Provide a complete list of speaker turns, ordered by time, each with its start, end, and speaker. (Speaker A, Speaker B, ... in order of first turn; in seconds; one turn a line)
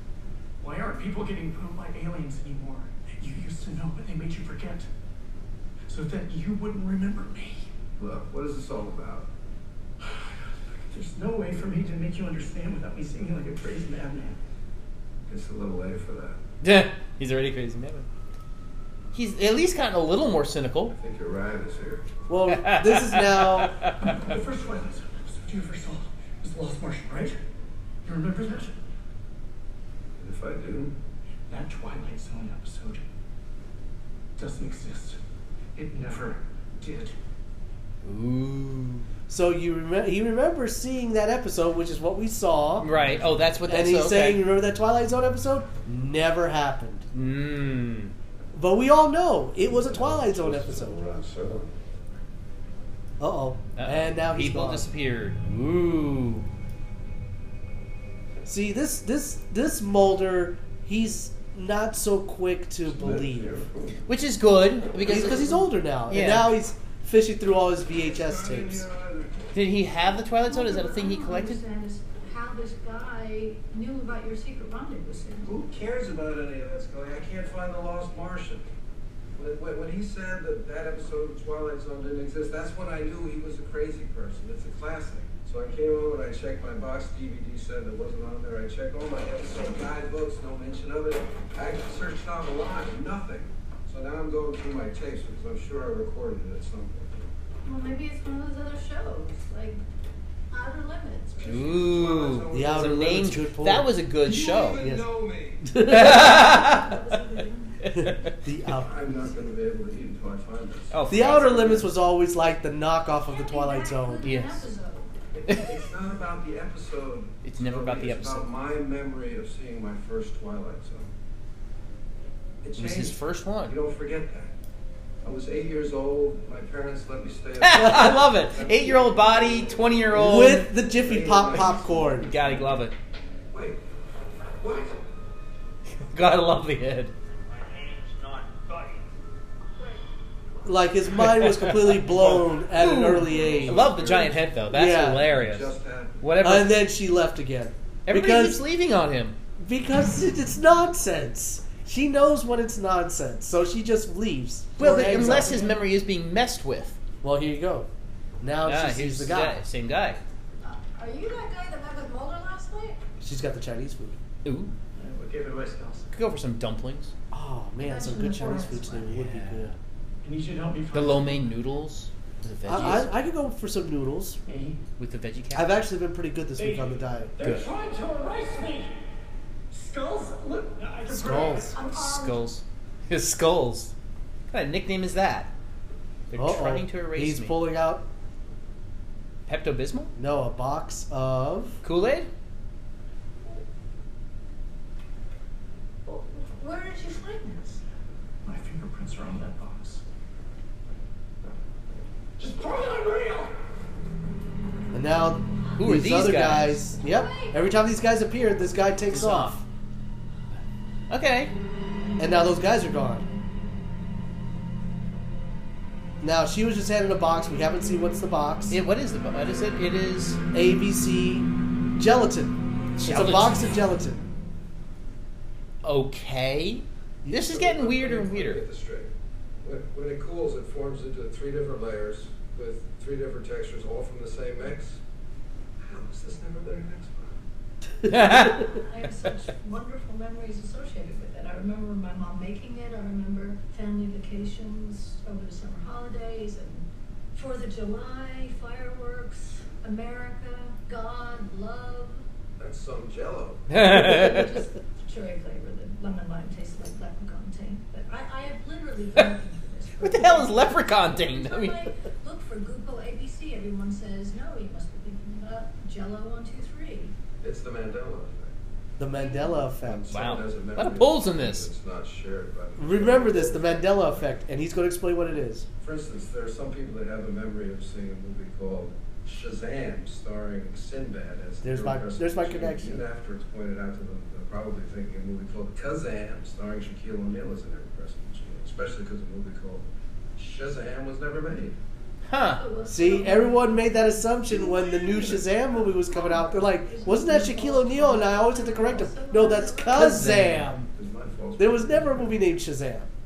Speaker A: 0.6-4.9
Speaker A: 5.9-7.7
Speaker B: 8.0-9.3
Speaker A: 10.0-14.4
Speaker B: 15.3-16.4
Speaker C: 16.6-18.1
Speaker C: 19.1-20.9
Speaker B: 20.9-22.1
Speaker D: 22.3-23.8
Speaker C: 22.5-24.1
Speaker A: 24.0-27.4
Speaker A: 28.1-28.8
Speaker B: 30.2-30.9
Speaker A: 31.5-33.0
Speaker A: 34.4-35.2
Speaker A: 35.8-37.2
Speaker C: 38.0-39.0
Speaker D: 39.3-42.9
Speaker C: 42.8-44.4
Speaker D: 43.7-47.1
Speaker C: 47.1-48.1
Speaker D: 48.5-51.0
Speaker B: 49.7-51.7
Speaker D: 53.2-54.9
Speaker C: 53.8-56.5
Speaker D: 58.5-63.6
Speaker B: 62.8-64.0
Speaker C: 64.1-66.6
Speaker D: 65.0-68.9
Speaker B: 68.0-69.4
Speaker C: 69.5-71.6
Speaker E: 70.5-75.5
Speaker B: 75.4-78.7
Speaker B: 79.4-97.2
Speaker E: 97.7-99.8
Speaker E: 100.5-101.8
Speaker B: 101.4-103.3
Speaker C: 101.4-104.8
Speaker D: 102.5-103.9
Speaker B: 104.2-105.7
Speaker D: 104.6-105.1
Speaker D: 105.6-106.3
Speaker C: 105.8-107.0
Speaker E: 106.0-107.8
Speaker C: 107.8-108.3
Speaker D: 108.0-108.9
Speaker B: 108.8-111.4
Speaker C: 110.9-111.9
Speaker D: 111.1-114.2
Speaker E: 113.3-115.1
Speaker C: 114.2-114.7
Speaker B: 115.3-121.1
Speaker C: 117.4-118.5
Speaker B: 122.6-124.5
Speaker C: 122.8-123.8
Speaker B: 125.2-129.9
Speaker C: 127.6-130.7
Speaker D: 127.8-128.1
Speaker D: 130.1-132.3
Speaker B: 130.8-132.8
Speaker C: 132.2-132.9
Speaker B: 133.5-133.8
Speaker B: 134.6-135.0
Speaker C: 136.0-137.1
Speaker A: 137.7-138.9
Speaker D: 140.7-144.0
Speaker C: 141.2-146.8
Speaker B: 143.3-144.3
Speaker D: 144.7-145.2
Speaker B: 145.2-146.2
Speaker D: 146.4-148.6
Speaker C: 148.1-149.4
Speaker D: 149.6-155.7
Speaker C: 154.8-157.0
Speaker D: 157.2-157.9
Speaker D: 158.4-159.6
Speaker C: 158.6-160.2
Speaker E: 160.6-163.0
Speaker D: 163.2-164.2
Speaker C: 164.4-164.7
Speaker A: 164.9-166.1
Speaker C: 166.1-167.1
Speaker D: 167.3-169.7
Speaker E: 167.8-169.1
Speaker C: 169.1-169.8
Speaker A: 170.2-171.4
Speaker C: 170.9-173.1
Speaker D: 172.7-174.4
Speaker A: 174.5-174.8
Speaker C: 175.0-175.8
Speaker D: 175.6-177.6
Speaker A: 176.6-178.9
Speaker A: 179.7-181.7
Speaker D: 181.1-181.7
Speaker E: 181.7-182.4
Speaker C: 181.8-183.9
Speaker C: 184.5-185.5
Speaker C: 186.3-187.6
Speaker D: 186.3-188.1
Speaker C: 189.5-190.1
Speaker D: 190.2-191.8
Speaker C: 191.8-192.3
Speaker E: 196.1-197.8
Speaker A: 198.4-200.0
Speaker A: 202.4-203.5
Speaker D: 204.9-209.6
Speaker C: 205.8-206.8
Speaker E: 207.0-207.6
Speaker C: 209.1-209.6
Speaker C: 211.1-211.5
Speaker D: 212.2-213.3
Speaker D: 216.2-218.8
Speaker C: 218.7-220.4
Speaker D: 220.5-224.2
Speaker C: 223.0-223.8
Speaker C: 225.8-228.6
Speaker B: 227.3-229.1
Speaker B: 229.6-235.0
Speaker B: 235.8-237.4
Speaker C: 238.1-238.7
Speaker E: 238.1-252.2
Speaker B: 252.6-253.7
Speaker C: 253.7-254.5
Speaker E: 253.7-267.1
Speaker C: 260.0-261.9
Speaker B: 267.4-268.6
Speaker D: 269.0-270.1
Speaker E: 269.1-269.7
Speaker B: 269.8-274.4
Speaker C: 270.1-271.7
Speaker D: 272.8-275.7
Speaker B: 275.8-289.9
Speaker D: 281.6-283.1
Speaker B: 290.4-291.8
Speaker C: 292.3-292.6
Speaker E: 292.4-300.2
Speaker D: 292.9-300.8
Speaker C: 299.9-300.8
Speaker B: 300.9-302.4
Speaker D: 301.6-303.1